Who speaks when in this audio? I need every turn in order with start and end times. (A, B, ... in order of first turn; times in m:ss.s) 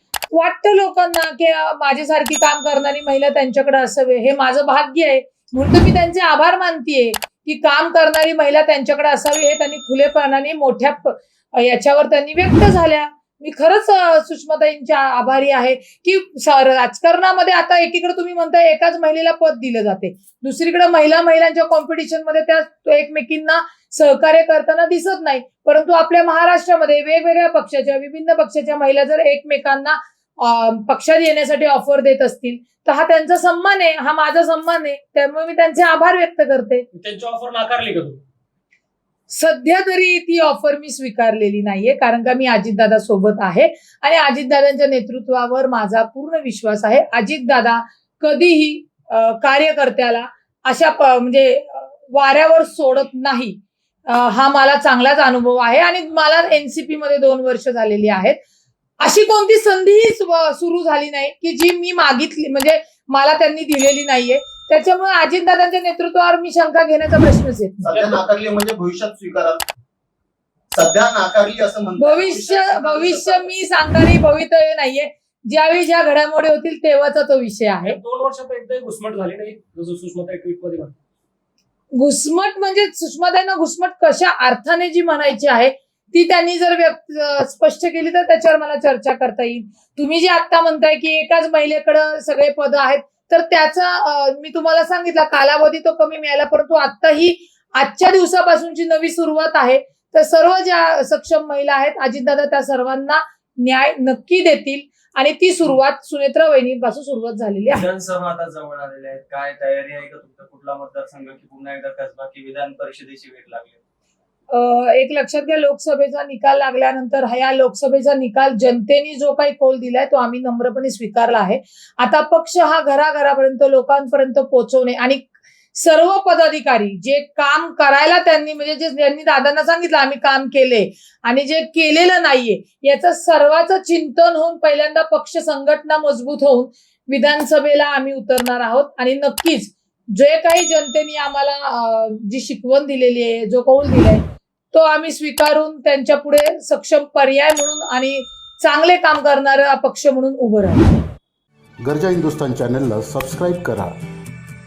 0:00.3-0:36.9 A
0:36.9-0:38.2 B
0:39.3-0:58.4 A
0:59.0-1:07.9 A
1:07.8-1:09.6 C
1:07.9-1:08.2 B
1:10.7-1:13.5 C
1:12.0-1:18.0 A
1:17.8-1:21.0 B
1:21.9-1:47.8 A
1:47.7-1:53.8 D
1:54.5-2:30.9 A
2:31.8-2:34.0 E